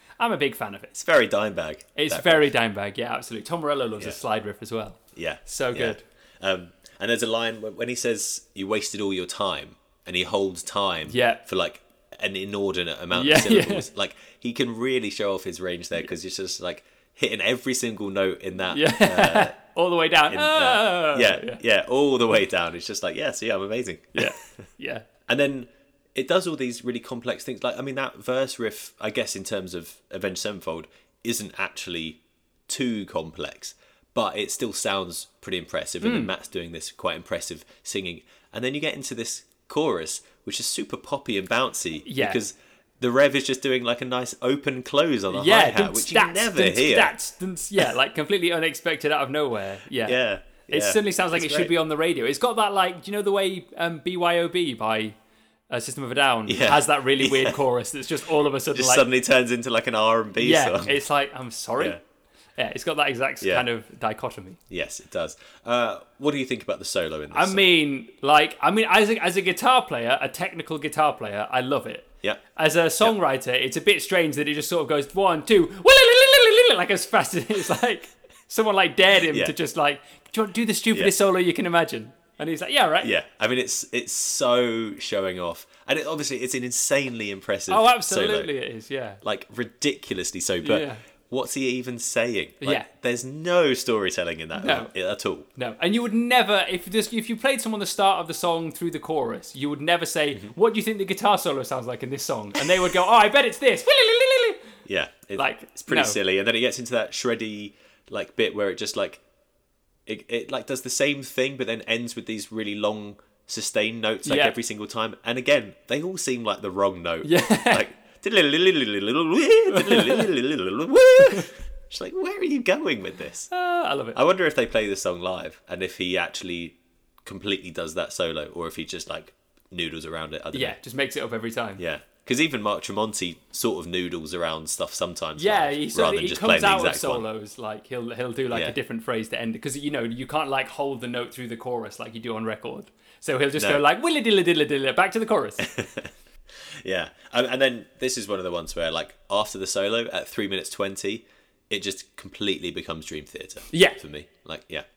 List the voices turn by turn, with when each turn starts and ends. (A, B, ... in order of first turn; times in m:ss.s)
0:00.2-0:00.9 A
0:00.9-0:02.4 B
0:02.0-0:06.0 A
0:05.2-0:19.6 B
0:11.1-0:11.4 A
0:13.1-0:13.9 A
0:18.7-0:21.6 A
0:20.3-0:24.4 B
0:24.2-0:25.1 A
0:25.3-0:47.1 B
0:36.0-0:36.3 A
0:42.1-0:42.4 A
0:45.3-0:55.2 A
0:50.0-0:51.7 B
0:55.7-0:59.0 A
0:56.5-0:57.6 B
0:58.7-1:01.0 B
1:00.4-1:02.0 A
1:02.6-1:04.6 A
1:03.4-1:03.7 B
1:04.7-1:07.6 B
1:07.3-1:23.1 A
1:23.0-1:28.5 B
1:27.7-1:29.2 A
1:29.2-1:35.5 B
1:30.6-1:31.0 A
1:32.6-1:32.9 A
1:34.6-1:34.9 A
1:35.6-1:44.7 A
1:44.9-1:49.2 B
1:45.4-1:46.2 A
1:50.1-2:03.5 B
1:54.2-1:54.6 A
1:57.2-1:57.8 A
1:59.7-2:00.3 A
2:03.5-2:04.2 A
2:04.1-2:10.8 B
2:10.5-2:11.8 A
2:11.8-2:17.2 B
2:15.4-2:25.7 A
2:23.6-2:23.8 B
2:25.6-2:34.8 B
2:33.7-2:34.0 A